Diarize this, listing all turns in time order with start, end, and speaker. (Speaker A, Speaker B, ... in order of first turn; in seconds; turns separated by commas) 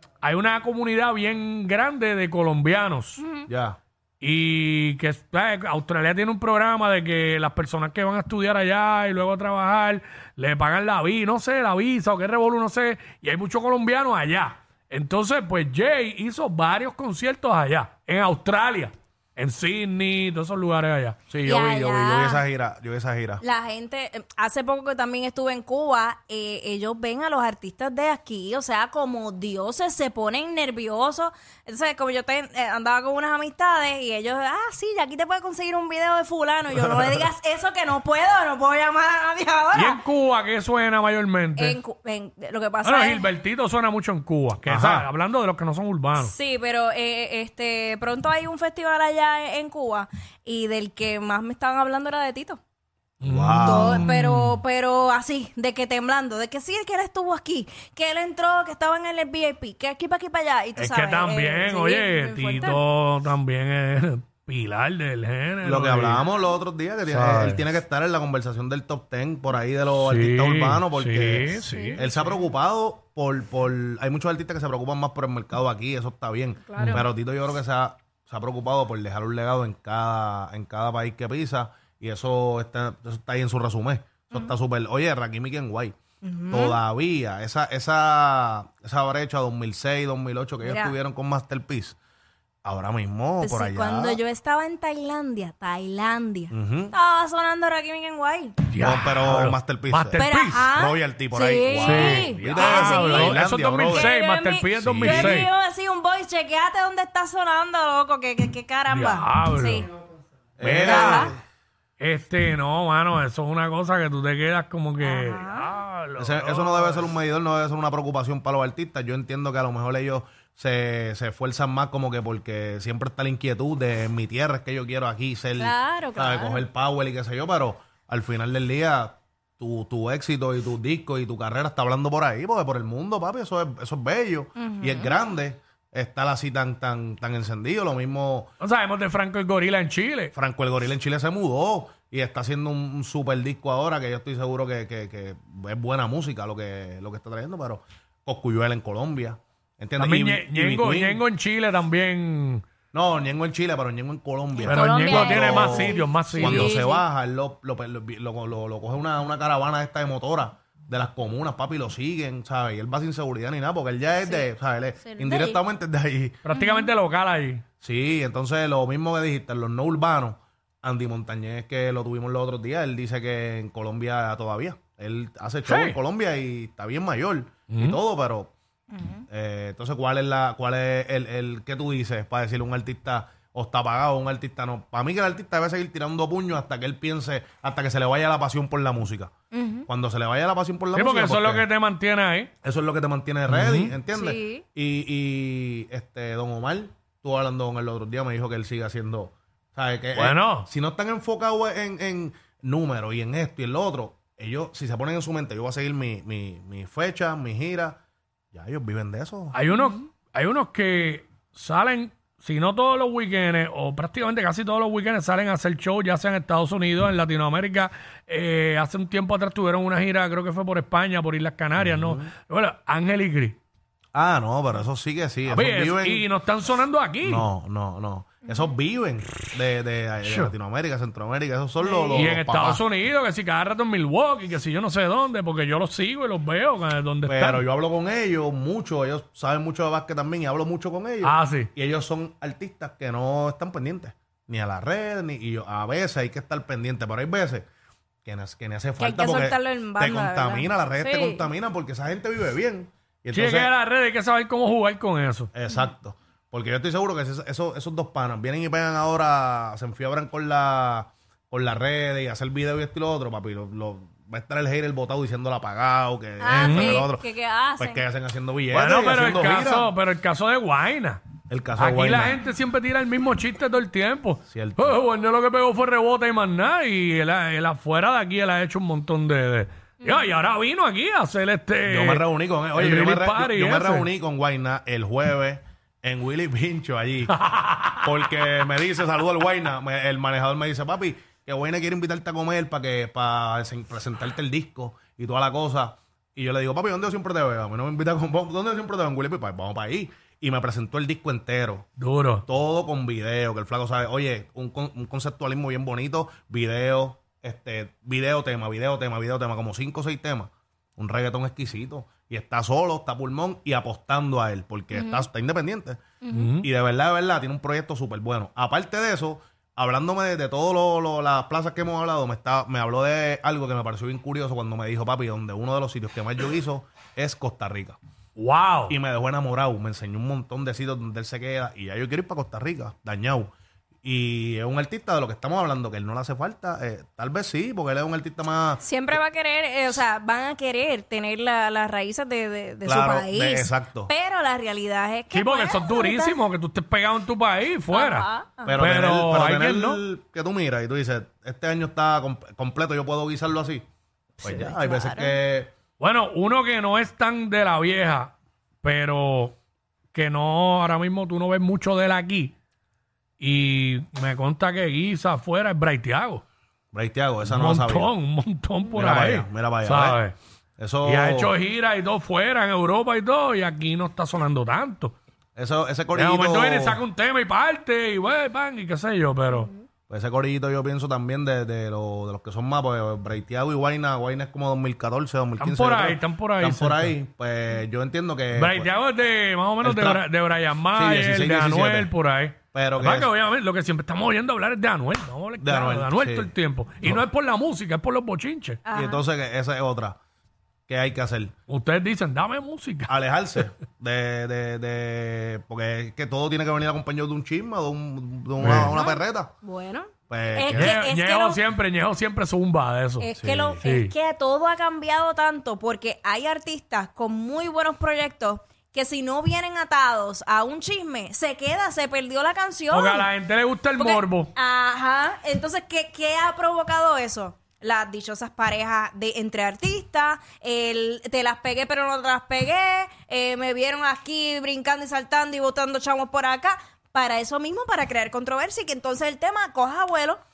Speaker A: 0.2-3.2, Speaker B: 3.2-3.5, Speaker C: 3.5-3.8, Speaker A: 4.2-21.3, Speaker C: 21.3-23.4, Speaker B: 21.4-22.4, Speaker B: 23.4-40.0, Speaker A: 39.7-41.8, Speaker B: 41.6-43.3, Speaker A: 42.8-46.3, Speaker C: 44.6-45.1, Speaker B: 46.2-52.6, Speaker A: 53.2-54.6, Speaker C: 53.2-54.0, Speaker B: 53.6-62.8, Speaker A: 60.8-66.2, Speaker C: 65.6-85.9, Speaker A: 67.0-67.6, Speaker A: 70.0-72.2, Speaker B: 71.5-72.2, Speaker B: 76.7-77.0, Speaker A: 76.8-77.0, Speaker B: 86.2-86.8, Speaker C: 86.5-92.0, Speaker B: 90.6-90.9, Speaker C: 92.6-94.2, Speaker B: 93.4-98.6, Speaker C: 96.5-96.9, Speaker A: 98.7-100.7, Speaker C: 98.8-104.1, Speaker B: 100.2-109.9, Speaker A: 101.7-105.5, Speaker C: 104.8-105.4, Speaker A: 108.9-109.9, Speaker C: 110.6-111.4, Speaker A: 110.6-111.3, Speaker B: 110.6-111.3, Speaker A: 112.0-117.0, Speaker B: 115.0-115.7, Speaker C: 116.2-138.5, Speaker B: 125.6-126.6, Speaker B: 134.6-135.2, Speaker A: 138.6-140.3, Speaker C: 140.3-151.2, Speaker A: 150.0-152.6, Speaker C: 152.9-166.4, Speaker B: 154.6-157.0, Speaker A: 154.6-156.8, Speaker B: 165.0-165.6, Speaker A: 166.4-167.6, Speaker B: 166.5-166.9, Speaker C: 167.8-178.5, Speaker A: 175.6-176.0, Speaker A: 177.7-178.0, Speaker B: 178.9-179.2, Speaker C: 179.3-189.3, Speaker B: 189.5-189.9, Speaker C: 189.9-191.7, Speaker A: 190.9-192.5, Speaker C: 192.6-208.0, Speaker A: 193.5-194.0, Speaker B: 194.1-194.6, Speaker A: 200.1-200.7, Speaker C: 208.5-209.6, Speaker A: 209.5-223.6, Speaker C: 221.8-222.3, Speaker C: 224.1-226.2, Speaker A: 225.5-227.4, Speaker C: 227.2-232.8, Speaker A: 230.2-230.5, Speaker B: 231.8-232.3, Speaker A: 232.1-237.7, Speaker C: 237.3-247.6, Speaker A: 241.2-241.7, Speaker C: 248.2-253.7, Speaker B: 249.0-251.4, Speaker A: 253.3-255.5, Speaker C: 255.5-267.2, Speaker B: 266.4-268.0, Speaker A: 266.6-267.0, Speaker C: 267.8-269.9, Speaker A: 268.7-271.2, Speaker C: 271.5-272.4, Speaker A: 271.8-284.1, Speaker C: 274.5-275.0, Speaker C: 281.9-287.4, Speaker A: 287.3-288.2, Speaker C: 288.0-301.9, Speaker A: 302.0-302.4, Speaker C: 302.4-316.0, Speaker B: 314.9-315.3, Speaker B: 316.2-316.5, Speaker A: 316.3-316.7, Speaker C: 316.6-328.0, Speaker A: 328.4-328.9, Speaker C: 328.9-333.5, Speaker C: 334.0-339.2, Speaker B: 338.8-346.4, Speaker C: 342.8-344.1, Speaker A: 345.3-350.0, Speaker B: 347.9-348.8, Speaker C: 348.6-353.8, Speaker B: 354.4-355.4, Speaker C: 354.4-355.7, Speaker A: 356.0-359.6, Speaker A: 360.1-362.5, Speaker A: 363.4-366.4, Speaker C: 366.9-368.1, Speaker A: 367.4-370.3, Speaker C: 368.9-370.2, Speaker C: 370.8-371.5, Speaker A: 371.0-375.1, Speaker C: 375.6-377.0, Speaker A: 376.1-379.7, Speaker C: 380.1-388.9, Speaker A: 385.6-387.1, Speaker A: 388.5-398.8, Speaker C: 389.8-390.2, Speaker C: 390.9-392.1, Speaker C: 392.7-393.3, Speaker C: 395.6-396.5, Speaker B: 398.9-399.2, Speaker C: 398.9-400.2, Speaker C: 400.9-401.5, Speaker A: 401.7-403.1, Speaker C: 403.1-409.5, Speaker A: 408.6-408.9, Speaker B: 408.7-411.6, Speaker C: 410.3-411.0, Speaker A: 410.7-413.3, Speaker B: 413.2-423.3, Speaker C: 413.4-413.8, Speaker A: 413.8-414.1, Speaker A: 422.9-424.5, Speaker B: 424.0-440.4